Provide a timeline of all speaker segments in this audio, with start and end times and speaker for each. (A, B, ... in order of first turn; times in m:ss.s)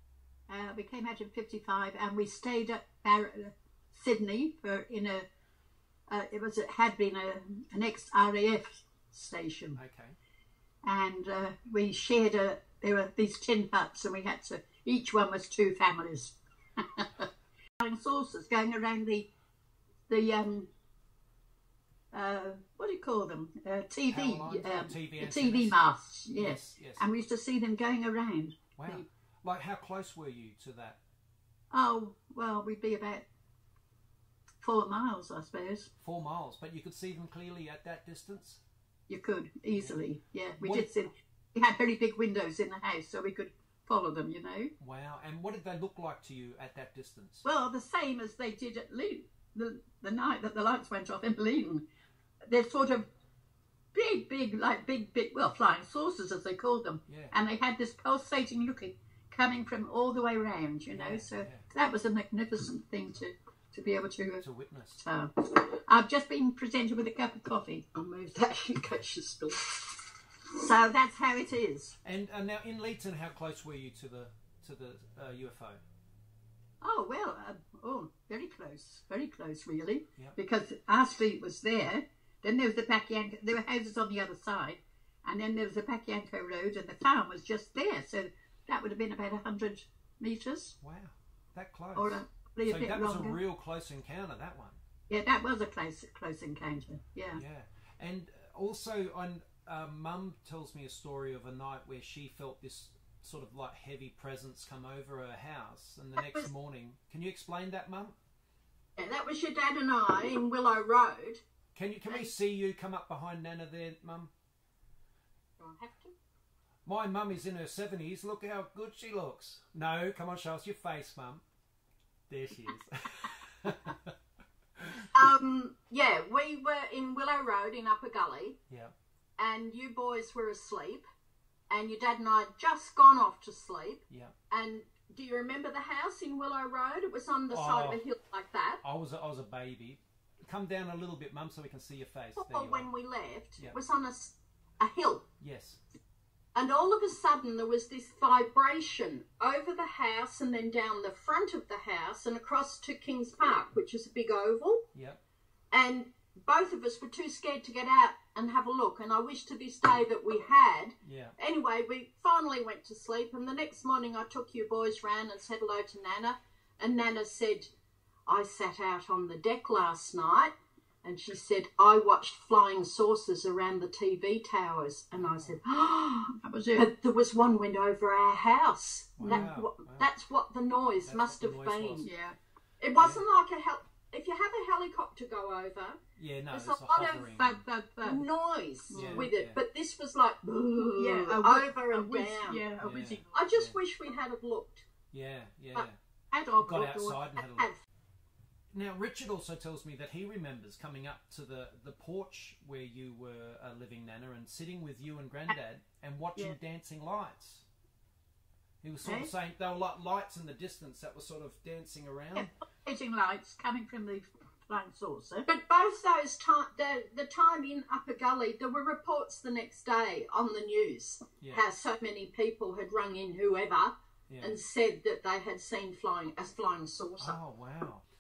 0:00.5-0:05.3 A
0:06.1-0:09.8 A
0:09.8-0:10.2 B
0:10.8-0:17.3 A
0:17.8-0:19.3 A
0:20.1-0:20.7 A
0:22.1-0:29.1 A
0:24.1-0:25.8 B
0:26.3-0:27.0 B
0:28.8-0:31.0 B
0:31.7-0:33.2 A
0:34.6-0:35.9 A
0:36.0-0:38.6 B
0:39.1-0:44.7 A
0:39.8-0:40.0 B
0:40.6-0:40.9 B
0:44.8-0:47.5 B
0:47.4-0:51.8 A
0:52.4-0:53.1 A
0:53.9-1:04.4 A
0:57.1-0:57.4 B
1:00.9-1:01.6 B
1:04.4-1:05.0 B
1:05.0-1:07.8 A
1:07.9-1:09.8 C
1:10.6-1:12.0 A
1:12.0-1:15.8 B
1:16.8-1:30.8 A
1:30.8-1:34.8 B
1:32.0-1:33.4 A
1:35.1-1:37.4 A
1:37.3-1:48.2 B
1:46.2-1:46.5 C
1:49.0-1:51.4 C
1:51.8-1:54.3 B
1:55.6-1:56.1 C
1:56.8-2:01.4 B
2:02.3-2:04.1 B
2:04.8-2:05.0 B
2:05.1-2:08.6 C
2:09.4-2:11.0 C
2:11.7-2:18.8 C
2:17.5-2:18.0 B
2:18.8-2:22.9 B
2:22.4-2:25.3 C
2:25.4-2:25.8 B
2:26.6-2:34.9 C
2:34.9-2:35.2 B
2:35.7-2:47.7 C
2:41.0-2:41.4 B
2:48.3-3:02.1 C
2:55.2-2:55.6 B
2:56.3-2:56.9 A
2:59.2-3:00.1 B
2:59.2-2:59.5 A
3:01.0-3:02.1 B
3:02.0-3:02.4 A
3:02.8-3:06.0 C
3:03.0-3:03.2 B
3:06.2-3:07.6 B
3:06.5-3:07.1 C
3:06.9-3:08.3 A
3:08.0-3:12.6 C
3:08.9-3:09.3 A
3:09.0-3:09.6 B
3:11.0-3:13.4 A
3:12.8-3:13.8 B
3:13.3-3:14.8 C
3:15.1-3:16.0 B
3:16.3-3:17.2 A
3:16.6-3:17.7 B
3:18.7-3:27.7 B
3:28.8-3:32.5 B
3:29.0-3:29.3 A
3:32.4-3:35.5 A
3:35.5-3:47.4 C
3:41.4-3:41.6 B
3:44.3-3:44.6 B
3:47.2-3:48.0 B